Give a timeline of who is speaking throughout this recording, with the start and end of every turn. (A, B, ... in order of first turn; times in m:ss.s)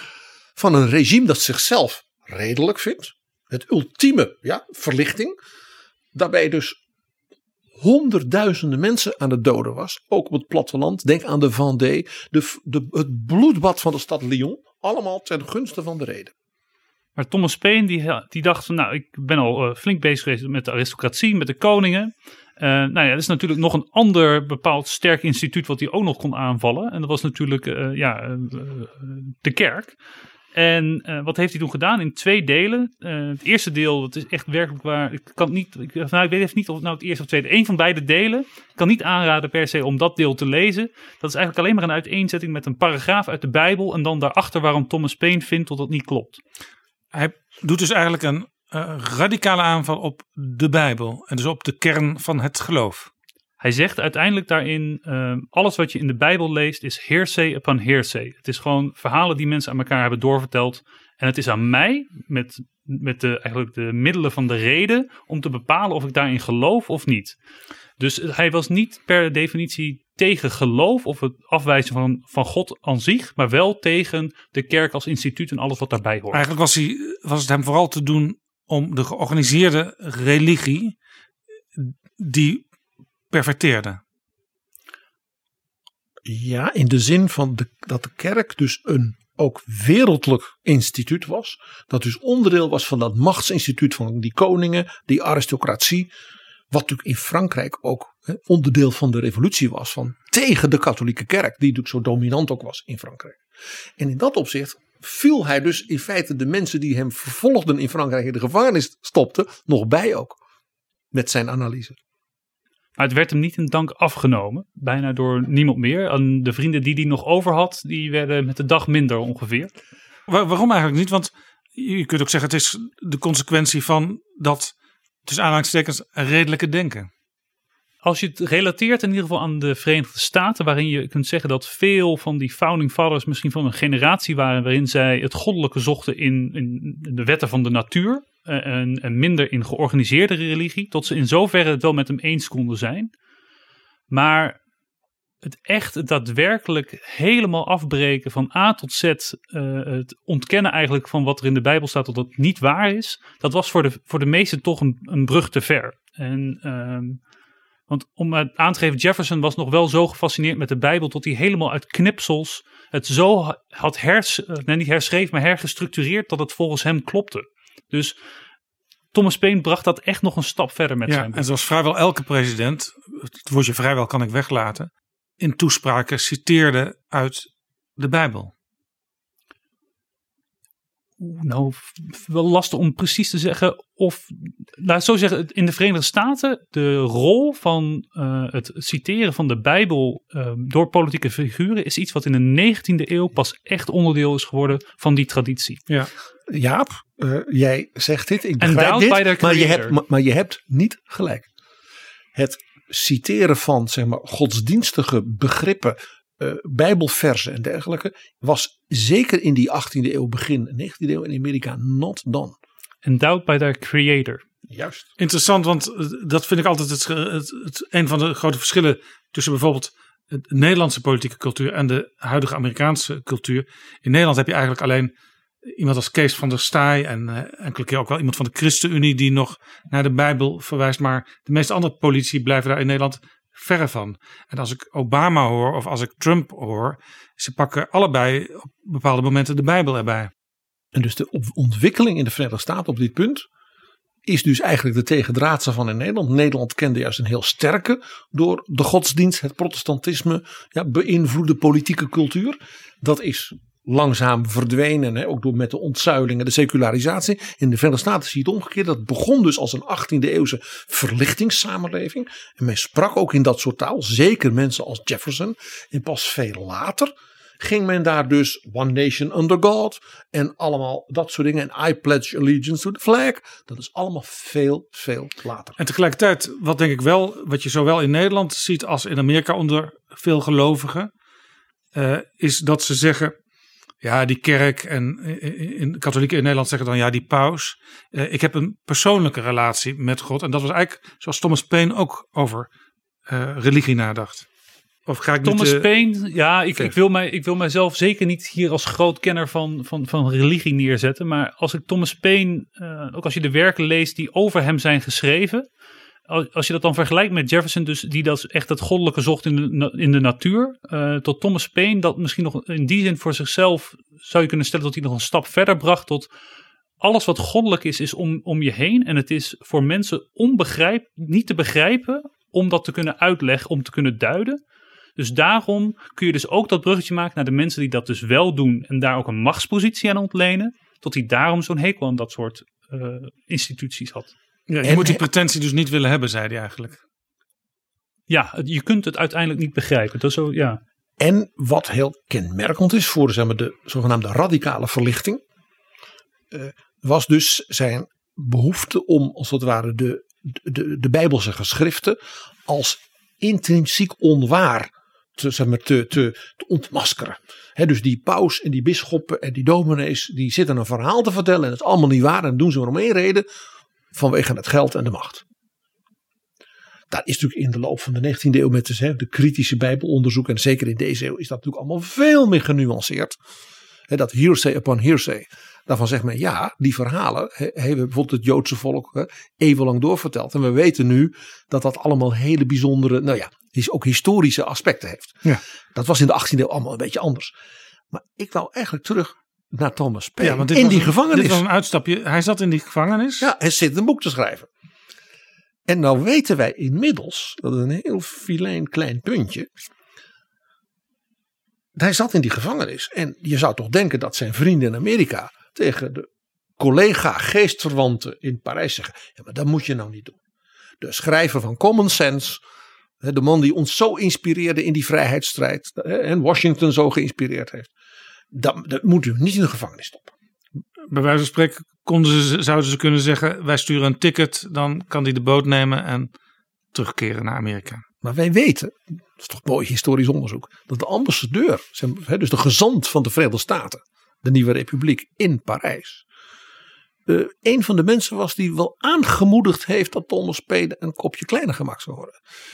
0:00.6-0:05.4 A
0:06.1-0:06.8 A
0:07.8-0:16.3 A
0:17.2-0:30.0 B
0:30.5-0:46.4 B
0:47.1-0:53.1 C
0:53.6-1:07.4 B
1:08.0-1:16.5 B
1:16.3-1:21.0 C
1:21.8-1:22.6 C
1:23.3-1:24.0 C
1:26.2-1:36.1 A
1:36.7-1:43.4 A
1:44.0-1:50.4 A
1:51.1-1:52.0 A
1:53.0-1:59.7 B
2:00.3-2:04.7 C
2:05.2-2:07.1 C
2:08.0-2:23.1 B
2:24.1-2:24.6 B
2:25.4-2:37.2 B
2:37.9-2:48.2 B
2:49.1-2:51.4 B
2:51.1-2:58.5 C
3:01.2-3:15.8 B
3:16.5-3:21.5 A
3:18.6-3:20.0 B
3:22.3-3:32.6 A
3:33.0-3:34.4 B
3:34.7-3:35.1 A
3:35.2-3:45.1 C
3:45.6-4:00.3 C
4:00.9-4:03.4 A
4:04.2-4:35.8 A
4:35.8-4:41.1 C
4:41.9-4:43.3 C
4:44.0-4:52.7 C
4:53.3-4:54.4 C
4:55.1-4:55.9 C
4:55.4-5:05.7 B
5:06.3-5:16.3 B
5:17.0-5:24.6 B
5:25.2-5:34.3 B
5:34.7-5:37.0 C
5:34.8-5:35.2 A
5:38.3-5:40.8 B
5:41.2-5:45.4 A
5:46.5-6:03.4 A
6:04.1-6:05.4 A
6:07.1-6:13.4 A
6:14.1-6:25.4 A
6:25.9-6:27.5 A
6:28.1-6:31.6 A
6:30.4-6:33.5 C
6:33.4-6:34.7 A
6:35.9-6:39.7 A
6:41.9-6:46.3 A
6:46.8-6:50.4 A
6:51.0-6:52.6 A
6:53.2-6:57.9 A
6:58.5-7:00.3 A
7:01.1-7:06.3 C
7:06.9-7:08.0 C
7:08.2-7:16.2 A
7:17.2-7:22.4 A